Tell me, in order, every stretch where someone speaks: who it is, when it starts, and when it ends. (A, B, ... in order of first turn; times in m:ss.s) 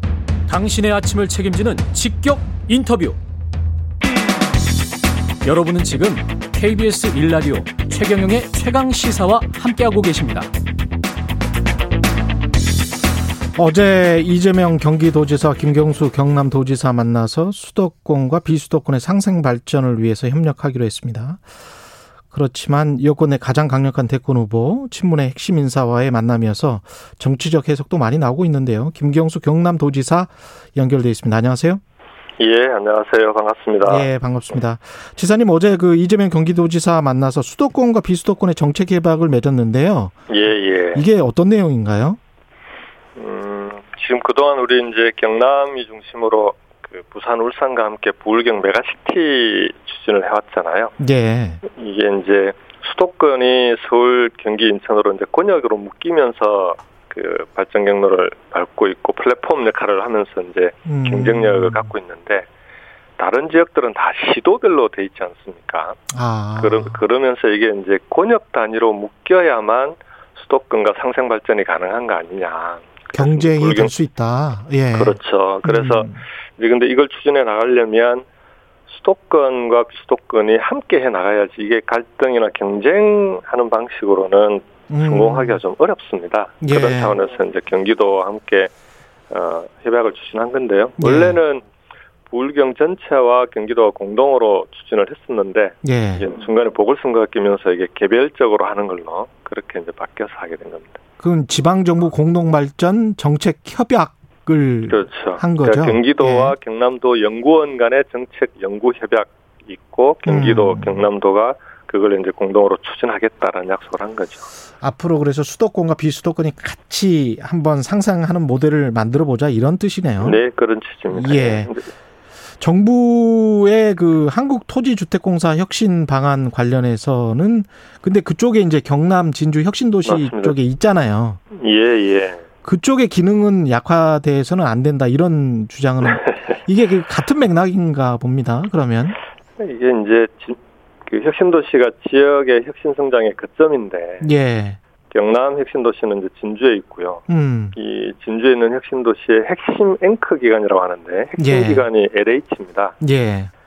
0:00.5-0:03.2 A
0:05.4-0:10.5 A
0:13.6-0:21.4 B
0:22.3-0:31.8 B
0:32.4-0:34.1 C
0:33.8-0:40.2 B
0:40.3-0:41.0 C
0:41.0-0:42.2 B
0:43.2-0:50.9 C
0:51.0-0:51.6 B
0:51.6-1:02.5 C
1:00.9-1:01.9 B
1:03.2-1:06.0 C
1:06.1-1:07.0 B
1:06.6-1:13.9 C
1:13.2-1:16.2 B
1:14.9-1:18.3 C
1:18.9-1:28.7 C
1:24.9-1:25.6 B
1:26.6-1:27.2 B
1:29.3-1:31.7 C
1:31.0-1:31.4 B
1:32.3-1:40.9 C
1:35.8-1:36.3 B
1:41.2-1:46.6 B
1:44.9-1:54.5 C
1:50.3-1:51.0 B
1:54.8-2:00.4 B
2:00.2-2:01.9 C
2:01.1-2:01.7 B
2:02.6-2:11.4 B
2:10.1-2:10.6 C
2:11.5-2:12.4 C
2:12.6-2:19.2 B
2:19.6-2:24.3 C
2:24.2-2:24.8 B
2:25.1-2:33.0 C
2:27.3-2:27.8 B
2:31.4-2:31.9 B
2:33.0-2:33.5 B